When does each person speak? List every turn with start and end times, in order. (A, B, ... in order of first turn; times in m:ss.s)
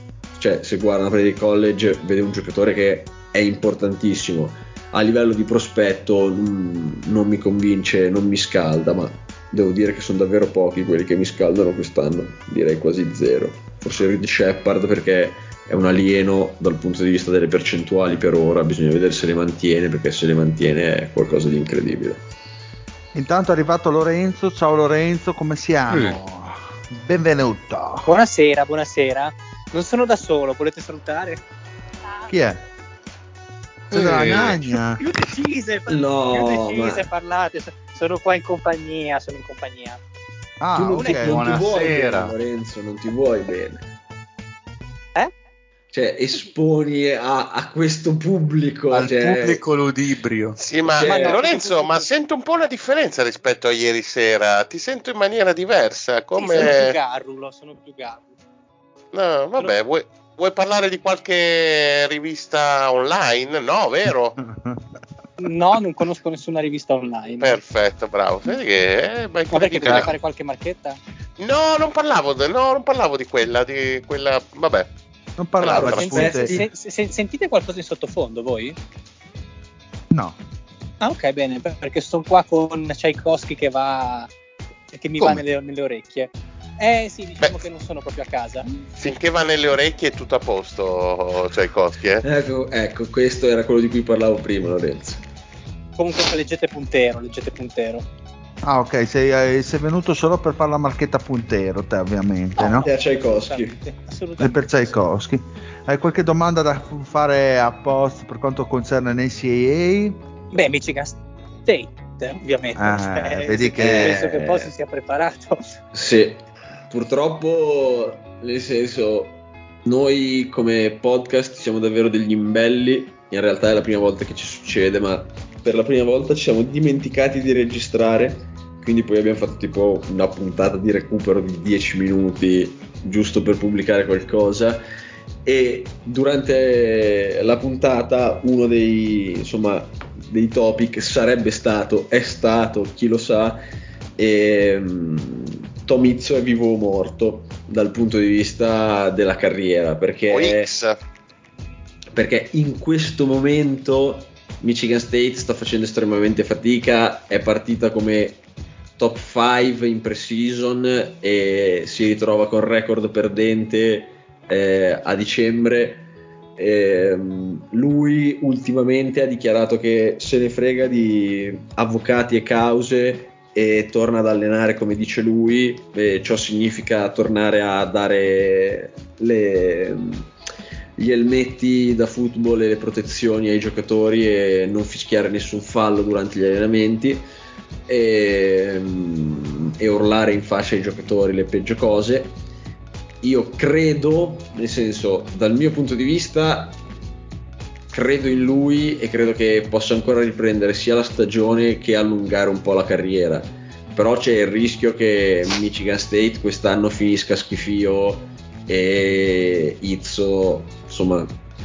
0:00.4-0:22.2 A
0:23.1-0:28.1 B
0:25.9-0:26.2 C
0:28.0-0:31.4 D
0:32.3-0:32.6 B
0:33.9-0:35.0 B
0:33.9-0:34.7 C
0:34.9-0:40.0 D
0:35.9-0:37.1 A
0:40.6-0:41.4 B
0:40.7-0:43.9 A
0:41.1-0:42.3 C
0:45.9-0:49.6 A
0:48.9-0:50.6 C
0:50.6-0:57.0 E
0:50.9-0:52.1 D
0:50.9-0:51.4 A
0:56.3-0:58.3 D
0:59.1-1:04.4 E
1:04.4-1:04.8 B
1:05.4-1:07.6 D
1:07.4-1:10.1 E
1:09.5-1:11.0 D
1:09.8-1:10.1 C
1:11.4-1:14.9 E
1:15.4-1:16.6 B
1:15.6-1:16.5 E
1:15.7-1:18.8 D
1:20.1-1:20.4 B
1:21.0-1:24.3 D
1:24.9-1:28.7 D
1:29.0-1:32.2 E
1:32.2-1:35.2 A
1:36.0-1:38.1 D
1:38.6-1:42.9 B
1:42.6-1:43.8 A
1:42.8-1:44.9 D
1:44.4-1:50.2 B
1:50.5-1:55.7 D
1:52.8-1:54.5 B
1:53.8-1:54.7 A
1:55.9-2:14.8 A
2:15.4-2:23.6 A
2:24.2-2:30.7 A
2:30.3-2:31.0 E
2:32.1-2:38.4 A
2:39.0-3:00.3 A
3:01.0-3:07.3 A
3:07.9-3:12.3 A
3:13.2-3:16.8 A
3:17.9-3:31.3 A